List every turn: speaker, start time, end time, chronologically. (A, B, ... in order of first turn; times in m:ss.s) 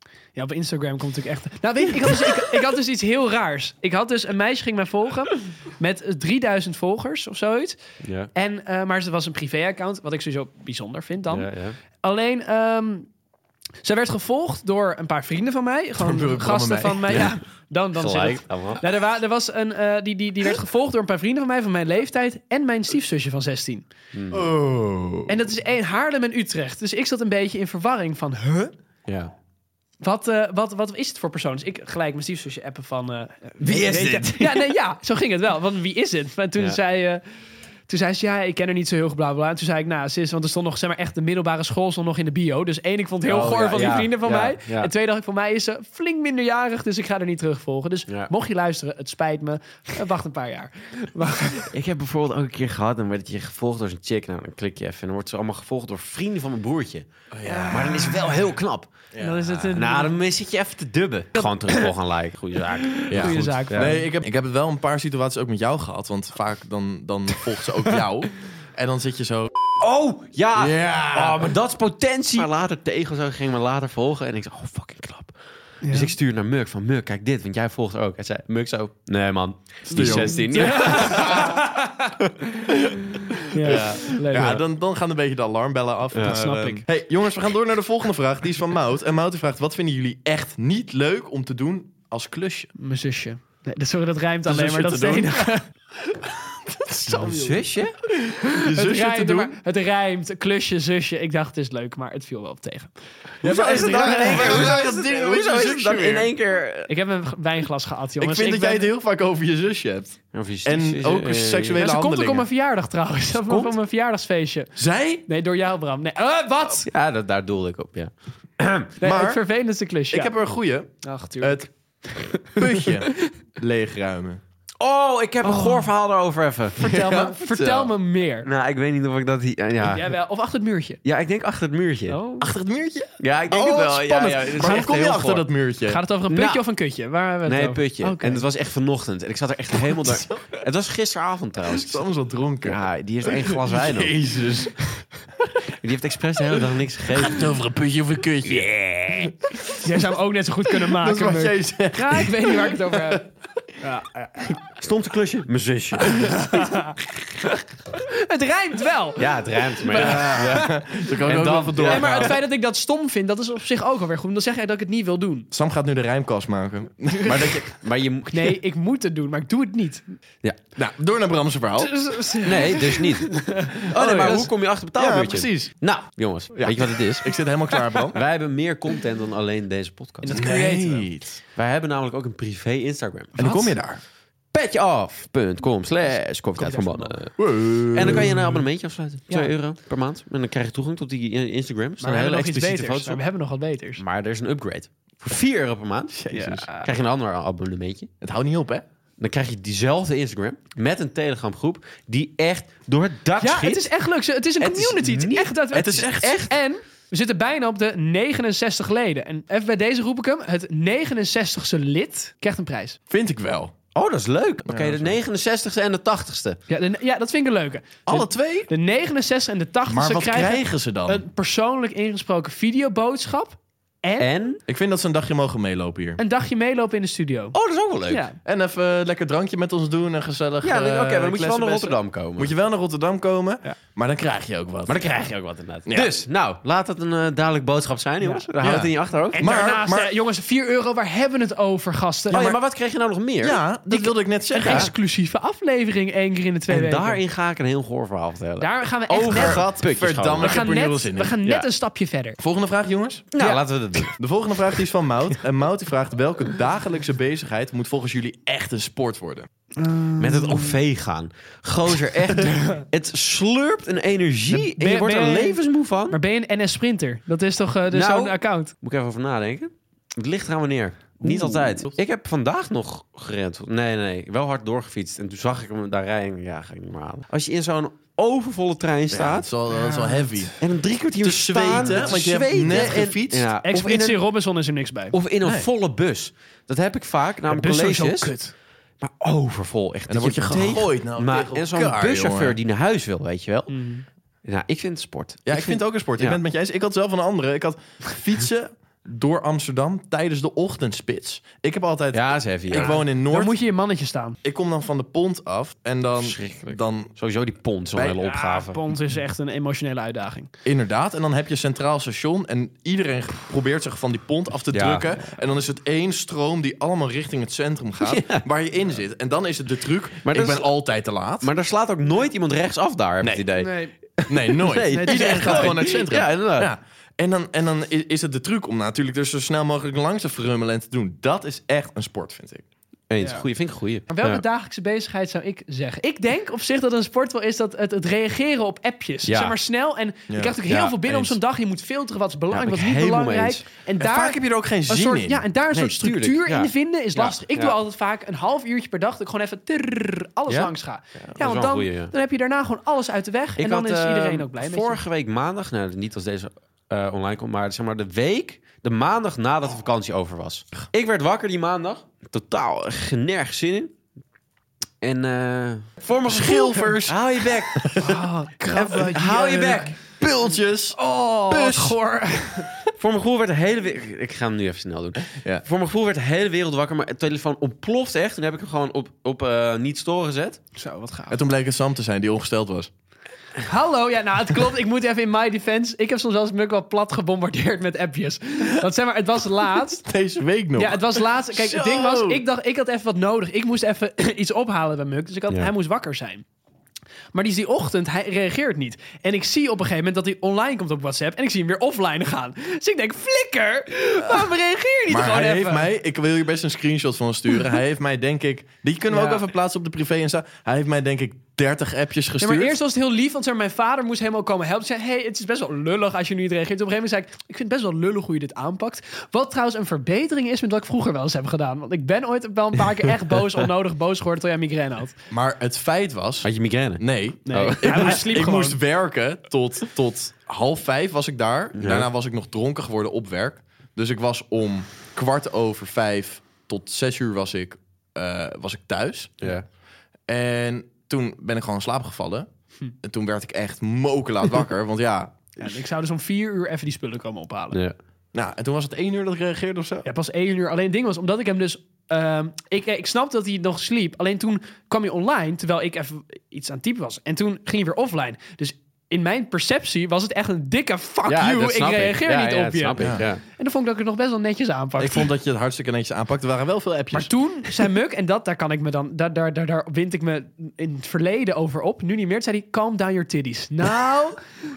0:00.4-0:07.8 A
0:08.0-0:08.3 B
0:08.3-0:11.5 A
0:11.3-0:11.8 B
0:12.0-0:13.1 A
0:13.8-0:23.8 A
0:16.0-0:17.3 C
0:17.9-0:18.8 B
0:24.1-0:24.5 B
0:24.3-0:25.4 C
0:25.3-0:28.7 A
0:29.0-0:29.3 B
0:30.0-0:37.2 A
0:33.6-0:34.7 B
0:37.9-0:51.7 A
0:43.2-0:44.9 B
0:51.7-0:57.1 B
0:57.3-0:58.3 C
0:57.4-0:58.1 A
0:57.7-0:58.9 B
0:59.1-0:59.7 C
0:59.2-1:00.1 A
0:59.7-1:03.9 B
1:01.4-1:01.9 A
1:02.9-1:04.0 A
1:03.1-1:09.5 C
1:09.8-1:21.5 B
1:10.6-1:11.5 C
1:15.8-1:16.1 A
1:19.9-1:21.5 C
1:19.9-1:22.1 A
1:22.8-1:32.7 C
1:23.5-1:24.6 A
1:23.6-1:24.0 B
1:26.1-1:26.8 B
1:26.2-1:26.8 A
1:32.8-1:35.7 A
1:34.4-1:35.5 C
1:36.1-1:37.6 C
1:37.1-1:37.9 B
1:38.3-1:39.6 C
1:38.5-1:42.9 A
1:43.4-1:46.3 C
1:43.4-1:46.9 B
1:43.5-1:44.7 A
1:46.9-1:48.9 A
1:48.2-1:52.4 C
1:50.3-1:51.9 B
1:51.8-1:54.7 A
1:53.4-1:53.7 B
1:54.8-1:55.2 C
1:55.3-1:56.9 A
1:56.8-1:58.9 B
1:59.0-2:00.3 A
1:59.0-1:59.4 C
2:00.1-2:01.7 C
2:01.0-2:01.7 A
2:02.4-2:04.4 C
2:02.5-2:02.9 A
2:04.8-2:06.8 B
2:05.4-2:05.9 A
2:06.8-2:08.5 A
2:06.8-2:07.9 C
2:08.4-2:10.1 B
2:09.8-2:11.0 A
2:11.0-2:12.2 B
2:12.1-2:12.5 A
2:12.4-2:16.0 C
2:13.2-2:15.5 B
2:14.6-2:14.9 A
2:15.8-2:18.4 A
2:16.3-2:16.6 B
2:17.4-2:22.0 B
2:21.7-2:24.8 C
2:22.6-2:24.1 B
2:25.8-2:27.4 B
2:27.2-2:29.7 C
2:29.8-2:33.3 A
2:30.7-2:33.2 C
2:33.8-2:34.5 A
2:34.6-2:36.3 B
2:36.1-2:39.3 A
2:39.2-2:40.7 B
2:39.8-2:40.7 A
2:39.9-2:42.4 C
2:41.2-2:42.4 B
2:41.8-2:45.5 A
2:45.5-2:47.7 C
2:47.6-2:48.6 B
2:48.3-2:50.1 A
2:50.8-2:51.9 C
2:51.8-2:54.4 A
2:52.4-2:57.3 B
2:54.0-2:55.7 C
2:56.5-2:58.2 C
2:58.1-3:00.4 B
3:00.2-3:01.1 A
3:00.3-3:01.4 C
3:01.6-3:03.3 B
3:03.4-3:03.7 A
3:03.4-3:04.0 C
3:04.5-3:13.2 B
3:06.6-3:07.2 A
3:07.4-3:08.6 C
3:12.0-3:14.0 A
3:14.0-3:18.1 B
3:16.2-3:16.9 A
3:18.2-3:18.8 C
3:19.2-3:23.8 B
3:23.4-3:33.0 A
3:24.6-3:26.5 B
3:25.7-3:26.5 C
3:33.1-3:33.7 C
3:33.9-3:36.6 B
3:34.6-3:35.2 C
3:36.7-3:44.3 A
3:38.0-3:38.7 C
3:39.8-3:41.2 C
3:44.2-3:44.6 B
3:44.7-3:46.2 C
3:46.2-3:47.5 A
3:47.5-3:48.2 B
3:48.1-3:48.4 A
3:48.4-3:55.1 C
3:50.6-3:52.5 B
3:54.9-3:59.5 B
3:55.8-3:56.2 C
3:58.6-4:00.1 C
3:59.3-4:02.5 A
4:02.3-4:03.6 B
4:02.3-4:02.6 C
4:03.4-4:04.9 C
4:03.9-4:07.2 A
4:04.6-4:04.9 B
4:06.7-4:10.7 B
4:08.6-4:09.7 A
4:09.2-4:11.4 C
4:10.4-4:12.4 A
4:12.4-4:13.3 C
4:13.3-4:14.1 B
4:13.4-4:14.1 A
4:14.2-4:19.5 C
4:19.8-4:20.8 A
4:20.2-4:26.2 B
4:22.4-4:22.8 A
4:24.5-4:28.7 A
4:27.9-4:39.5 B
4:31.2-4:31.7 A
4:39.1-4:40.6 C
4:39.7-4:40.5 A
4:40.6-4:44.2 B
4:41.2-4:43.5 C
4:41.8-4:42.1 A
4:43.6-4:45.1 A
4:45.1-4:48.4 B
4:45.4-4:45.7 C
4:47.5-4:48.5 A
4:49.0-4:53.8 B
4:50.1-4:52.6 C
4:53.7-4:54.0 A
4:54.4-4:56.4 B
4:55.5-5:03.5 C
5:02.1-5:03.0 B
5:02.7-5:04.4 A
5:04.4-5:07.1 C
5:06.2-5:08.8 B
5:08.2-5:10.5 A
5:10.6-5:21.5 C
5:14.7-5:15.1 B
5:18.0-5:18.4 B
5:20.2-5:20.7 B
5:21.4-5:23.7 B
5:23.6-5:23.9 A
5:24.3-5:32.6 C
5:24.5-5:26.7 B
5:24.8-5:25.9 A
5:33.1-5:34.4 B
5:33.2-5:33.5 A
5:34.1-5:55.0 A
5:39.2-5:39.6 B
5:40.3-5:41.3 C
5:40.7-5:41.2 B
5:42.5-5:43.6 B
5:44.0-5:45.4 C
5:45.7-5:47.8 B
5:51.2-5:52.1 B
5:53.6-6:03.9 B
6:05.0-6:08.0 B
6:06.2-6:07.2 C
6:07.7-6:08.2 C
6:08.0-6:10.0 A
6:08.7-6:10.1 B
6:10.2-6:12.0 C
6:10.9-6:12.7 A
6:13.0-6:20.6 B
6:20.8-6:21.4 A
6:21.3-6:22.9 C
6:23.6-6:30.0 A
6:30.0-6:32.4 C
6:30.8-6:36.4 A
6:37.3-6:45.9 A
6:45.1-6:52.8 C
6:49.1-6:49.4 A
6:52.4-7:05.2 A
7:05.3-7:19.5 C
7:06.4-7:08.2 B
7:07.5-7:08.8 A
7:11.7-7:12.1 B
7:20.3-7:22.5 C
7:23.0-7:25.6 C
7:25.6-7:27.8 A
7:28.3-7:30.0 C
7:30.0-7:45.3 A
7:41.3-7:43.4 B
7:43.0-7:43.3 C
7:45.0-7:47.3 C
7:47.1-7:54.4 A